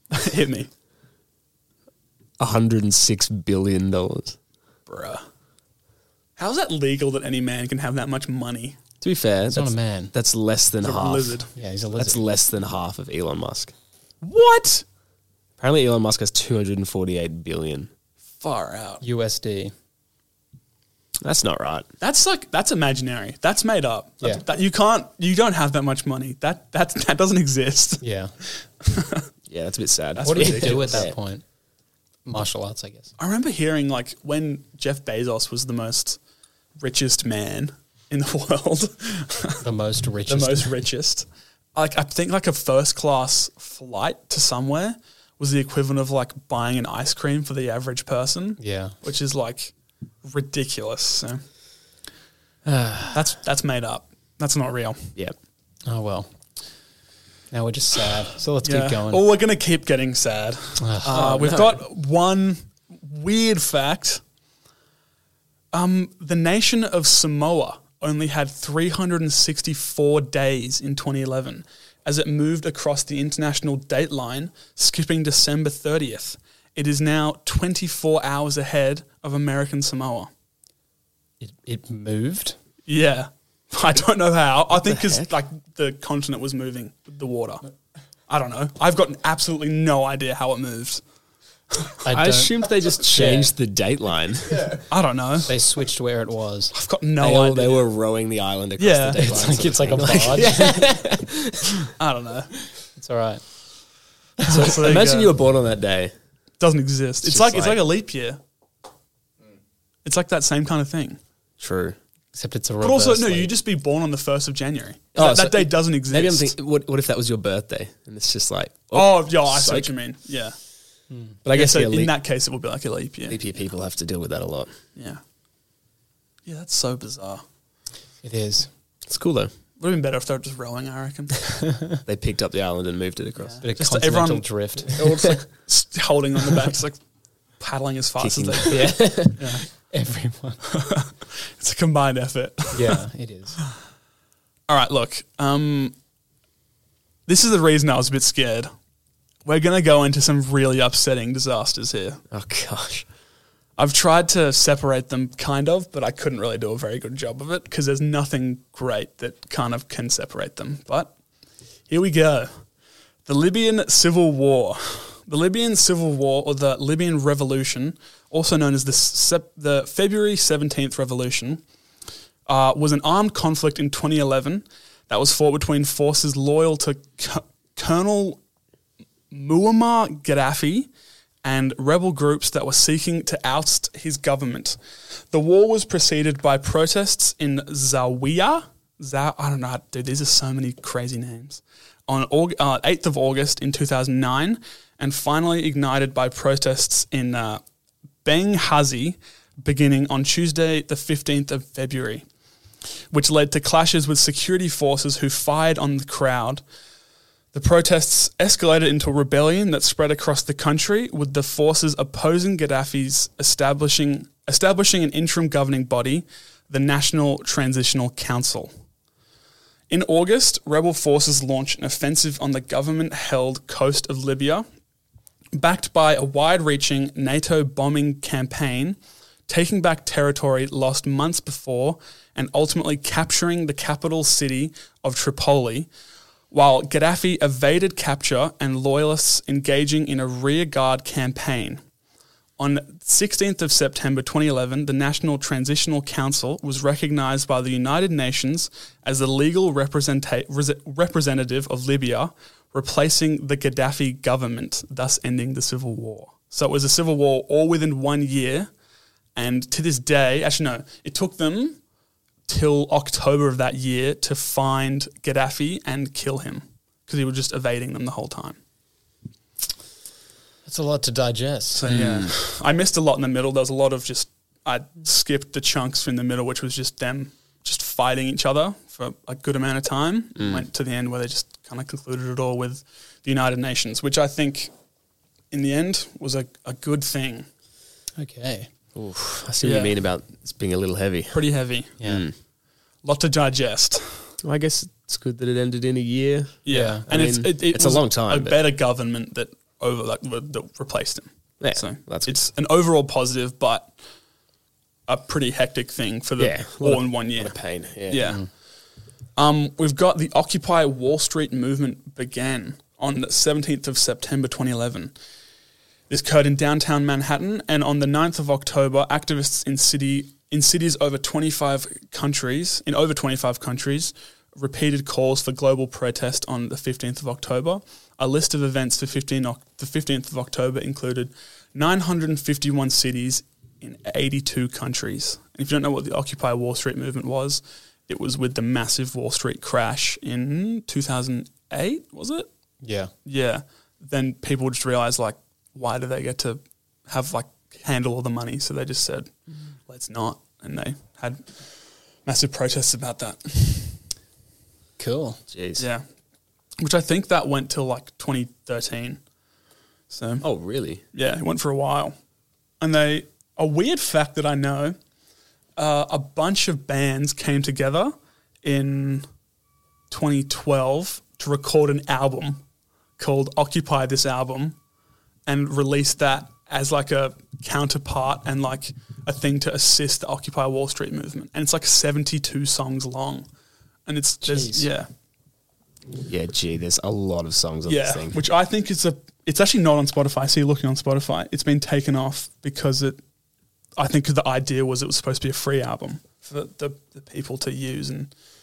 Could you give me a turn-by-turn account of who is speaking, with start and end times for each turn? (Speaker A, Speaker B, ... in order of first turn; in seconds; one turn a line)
Speaker A: 0.1-0.7
Speaker B: 2.4-4.4
Speaker A: 4.9-5.2
Speaker A: 6.4-8.8
Speaker B: 9.0-11.4
Speaker C: 9.5-10.1
Speaker A: 10.8-11.5
Speaker C: 11.6-12.3
Speaker B: 12.0-13.7
Speaker A: 14.2-14.8
Speaker B: 15.6-17.9
Speaker A: 18.4-19.0
Speaker C: 19.0-19.7
Speaker B: 21.2-21.9
Speaker A: 22.0-29.3
Speaker C: 28.0-28.3
Speaker B: 29.5-31.1
Speaker A: 30.2-31.0
Speaker C: 30.2-31.4
Speaker C: 32.2-33.1
Speaker A: 33.2-36.2
Speaker A: 36.8-39.6
Speaker C: 39.6-40.7
Speaker A: 40.3-49.7
Speaker C: 48.6-49.0
Speaker A: 50.2-51.4
Speaker C: 52.7-53.1
Speaker A: 53.1-55.1
Speaker C: 55.9-56.3
Speaker C: 57.5-59.2
Speaker A: 58.6-64.2
Speaker C: 60.8-61.2
Speaker B: 61.1-61.8
Speaker A: 65.7-80.3
Speaker C: 81.4-82.6
Speaker A: 82.9-87.6
Speaker B: 84.8-85.3
Speaker A: 88.3-91.0
Speaker C: 92.0-93.5
Speaker B: 92.1-94.8
Speaker A: 94.9-95.5
Speaker C: 95.5-96.8
Speaker A: 96.7-97.9
Speaker B: 97.2-101.9
Speaker A: 98.8-99.8
Speaker C: 99.1-100.9
Speaker A: 102.0-102.6
Speaker C: 103.0-103.5
Speaker A: 104.5-105.3
Speaker B: 104.5-106.1
Speaker A: 106.6-108.4
Speaker B: 107.2-107.8
Speaker A: 110.0-111.2
Speaker B: 111.6-112.0
Speaker C: 112.3-113.5
Speaker A: 112.8-116.5
Speaker B: 115.2-119.9
Speaker A: 118.9-120.5
Speaker C: 121.1-121.4
Speaker B: 121.5-122.1
Speaker A: 121.5-123.5
Speaker B: 123.3-124.7
Speaker A: 125.0-125.2
Speaker A: 126.5-127.4
Speaker C: 128.2-128.7
Speaker B: 129.1-129.5
Speaker A: 129.8-131.4
Speaker C: 131.5-132.0
Speaker B: 132.1-133.6
Speaker A: 133.4-137.0
Speaker C: 133.6-135.3
Speaker B: 135.0-135.4
Speaker A: 137.6-139.7
Speaker B: 138.2-139.5
Speaker C: 139.9-140.6
Speaker A: 140.7-143.0
Speaker C: 142.7-143.6
Speaker A: 144.7-145.9
Speaker A: 147.3-148.7
Speaker A: 149.4-152.2
Speaker B: 152.3-153.1
Speaker A: 153.8-161.1
Speaker A: 161.9-162.5
Speaker A: 163.3-171.6
Speaker A: 172.5-178.4
Speaker A: 179.3-180.9
Speaker A: 181.4-184.8
Speaker A: 185.3-197.6
Speaker A: 198.2-202.2
Speaker A: 203.1-206.6
Speaker A: 207.5-218.7
Speaker A: 219.9-224.7
Speaker A: 225.5-229.0
Speaker A: 229.5-235.9
Speaker A: 236.5-241.8
Speaker A: 242.6-258.7
Speaker A: 259.4-261.8
Speaker A: 262.5-268.6
Speaker C: 270.7-271.9
Speaker A: 271.8-284.7
Speaker B: 271.9-272.3
Speaker B: 280.4-280.7
Speaker A: 285.5-287.5
Speaker C: 288.2-288.7
Speaker B: 288.9-291.4
Speaker A: 289.6-290.0
Speaker A: 291.3-291.9
Speaker C: 292.0-292.2
Speaker B: 292.0-292.3
Speaker A: 293.0-294.3
Speaker B: 294.4-298.6
Speaker A: 296.7-303.9
Speaker C: 296.7-297.1
Speaker B: 301.6-302.4
Speaker A: 305.1-307.6
Speaker B: 306.4-308.3
Speaker A: 308.1-308.4
Speaker A: 309.4-315.1
Speaker A: 316.1-342.5
Speaker C: 342.8-343.1
Speaker A: 343.2-349.3
Speaker A: 349.9-351.6
Speaker A: 352.3-354.0
Speaker C: 355.0-355.4
Speaker B: 355.5-355.9
Speaker A: 355.8-356.0
Speaker A: 356.8-359.2
Speaker A: 360.1-360.4
Speaker B: 360.4-361.0
Speaker A: 361.1-362.1
Speaker A: 362.8-365.0
Speaker A: 365.8-369.3
Speaker A: 370.1-372.6
Speaker A: 373.2-374.8
Speaker A: 375.5-383.5
Speaker A: 384.1-385.1
Speaker C: 384.4-384.9
Speaker B: 386.3-388.4
Speaker A: 387.9-393.2
Speaker A: 394.0-398.3